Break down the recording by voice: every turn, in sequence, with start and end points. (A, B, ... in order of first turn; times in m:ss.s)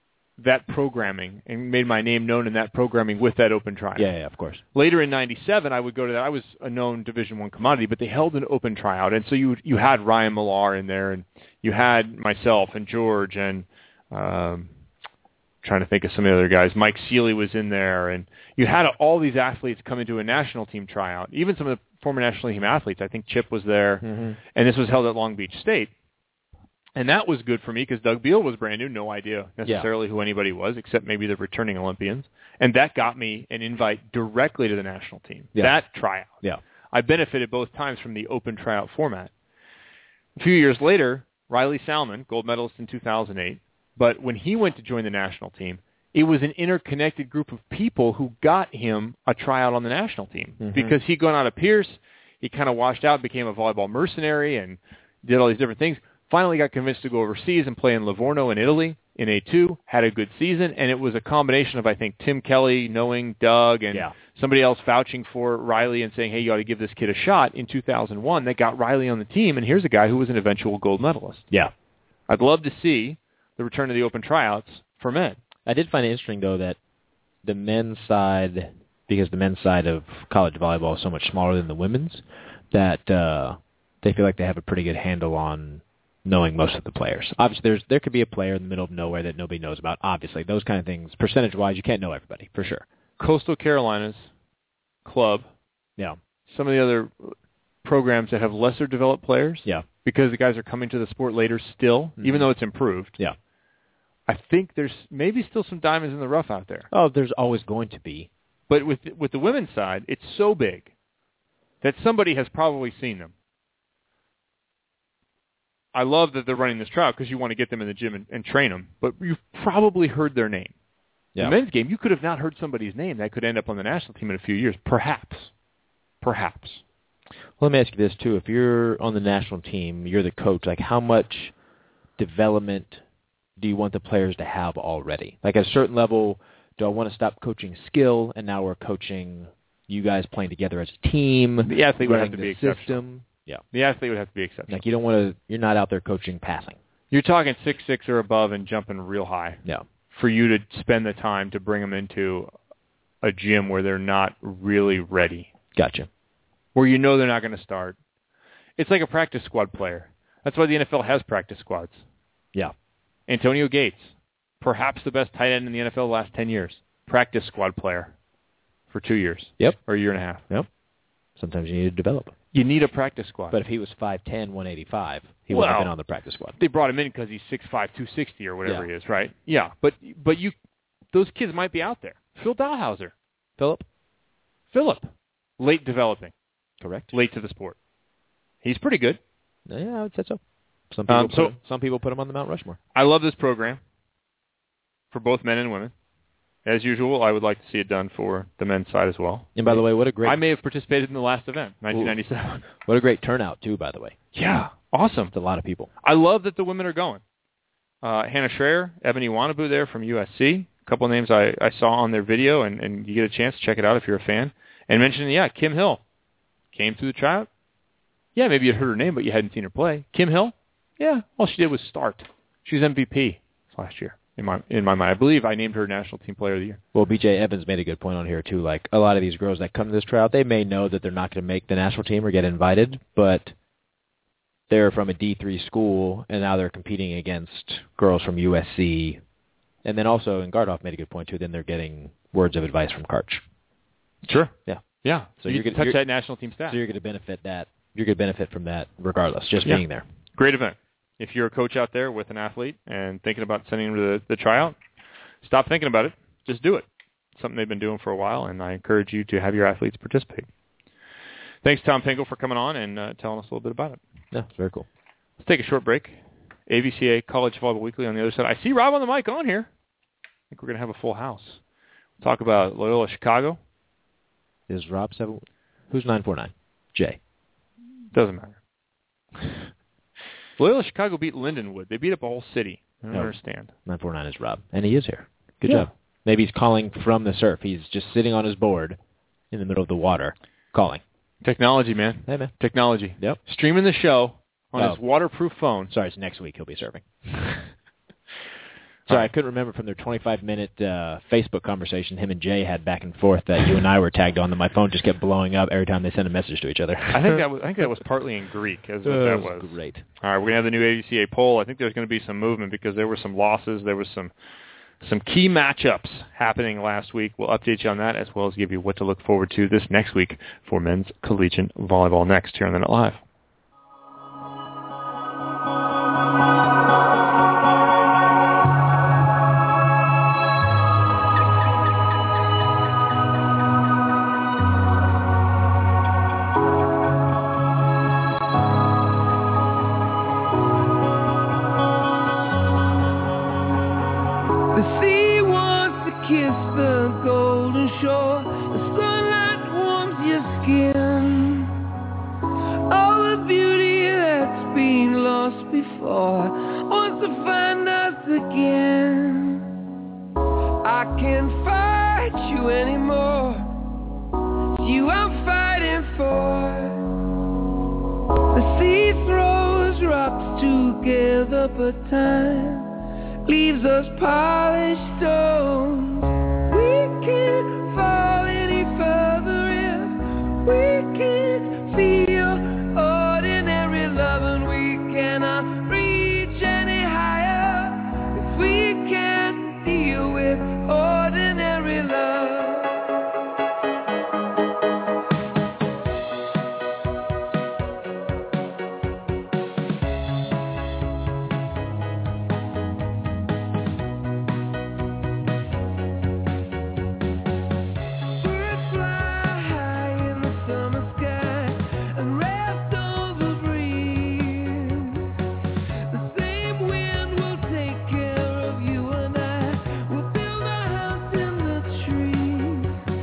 0:00.4-0:04.1 A
0:04.0-0:04.6 B
0:04.7-0:14.7 A
0:15.6-0:25.9 A
0:24.0-0:24.4 B
0:27.0-0:36.4 A
0:35.6-0:36.6 B
0:36.9-0:39.3 A
0:40.4-1:11.5 A
0:50.6-0:51.0 B
1:12.3-1:15.4 A
1:15.7-1:16.8 B
1:17.4-1:32.8 B
1:33.2-1:34.3 A
1:35.0-1:35.5 A
1:36.5-1:43.2 A
1:42.2-1:42.5 B
1:44.3-1:46.9 A
1:46.9-1:48.3 B
1:48.7-1:50.9 A
1:51.8-1:53.3 A
1:55.9-2:00.7 A
2:01.4-2:05.5 A
2:06.2-2:06.8 A
2:07.6-2:11.6 B
2:12.2-2:13.0 B
2:13.6-2:23.6 B
2:21.6-2:23.0 A
2:23.7-2:24.8 A
2:24.7-2:26.8 B
2:27.1-2:32.5 A
2:33.2-2:35.5 A
2:35.8-2:36.1 B
2:36.8-2:38.0 A
2:38.8-2:42.0 A
2:43.3-2:48.1 A
2:48.9-2:50.5 A
2:51.4-2:52.4 B
2:52.5-2:53.6 A
2:53.5-2:56.6 B
2:55.5-2:55.9 A
2:56.6-3:00.6 A
3:01.1-3:03.1 A
3:03.6-3:03.8 B
3:04.7-3:06.3 A
3:06.8-3:07.1 B
3:07.1-3:07.8 A
3:08.6-3:09.2 A
3:09.7-3:12.8 B
3:11.1-3:11.6 A
3:13.0-3:13.8 A
3:15.1-3:15.9 A
3:16.6-3:22.7 A
3:19.6-3:20.4 B
3:21.9-3:24.2 B
3:24.3-3:25.3 A
3:25.3-3:25.9 B
3:26.0-3:27.2 A
3:28.0-3:36.0 A
3:36.7-3:37.5 A
3:38.4-3:46.8 A
3:46.9-3:53.5 B
3:54.7-3:59.2 B
3:59.8-4:03.4 B
4:04.2-4:06.8 A
4:04.7-4:06.0 B
4:06.6-4:10.0 B
4:09.6-4:14.8 A
4:15.4-4:20.5 A
4:21.6-4:24.0 A
4:24.3-4:24.9 B
4:25.4-4:29.7 A
4:30.5-4:31.6 A
4:32.2-4:33.6 A
4:34.7-4:37.2 B
4:38.1-4:38.6 A
4:40.6-4:43.7 A
4:43.1-4:49.0 B
4:45.6-4:45.9 A
4:49.5-4:51.0 B
4:51.4-4:55.9 A
4:52.3-4:52.6 B
4:55.9-4:57.7 B
4:59.1-5:07.4 B
5:07.1-5:14.3 A
5:09.0-5:10.0 B
5:15.0-5:23.2 A
5:44.7-5:51.7 C
5:52.9-5:59.6 C
6:00.8-6:03.7 C
6:04.8-6:07.0 C
6:08.5-6:12.9 C
6:13.4-6:33.0 C
6:48.4-6:55.3 C
6:56.1-7:03.0 C